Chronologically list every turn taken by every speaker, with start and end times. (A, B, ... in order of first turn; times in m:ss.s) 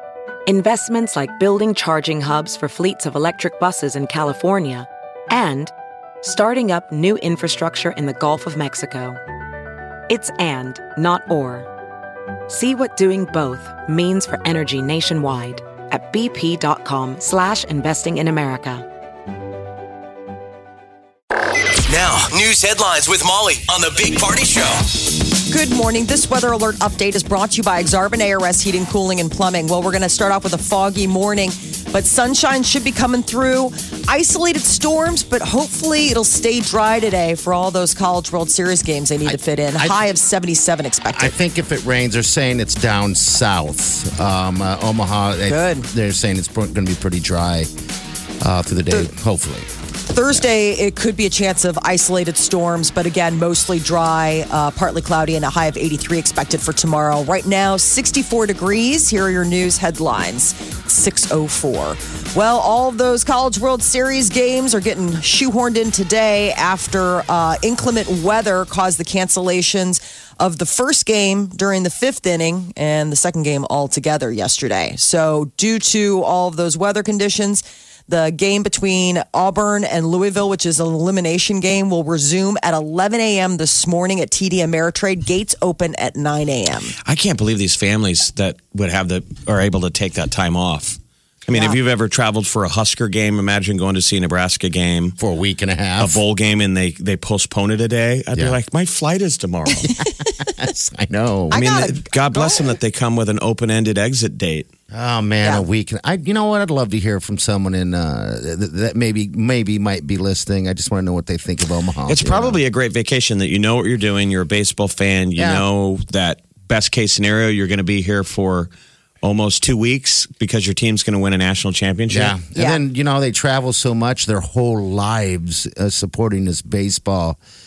0:00.5-0:05.7 A
0:06.2-0:09.2 A
0:10.1-0:11.7 A
0:12.5-0:18.9 A
0:21.8-0:24.9 B
0:25.5-0:41.3 C
0:39.3-0:40.0 D
0:41.1-0:47.7 D
0:45.4-0:45.9 C
0:48.4-0:49.7 D
0:50.1-1:27.0 C
1:27.0-1:35.2 E
1:35.2-1:36.2 D
1:36.0-1:39.9 E
1:39.8-1:41.6 D
1:41.5-1:42.7 C
1:41.5-1:44.7 E
1:44.9-1:52.6 D
1:52.1-1:58.7 E
1:55.4-1:55.6 D
1:59.2-2:02.4 E
2:02.1-2:07.4 D
2:02.6-2:02.8 C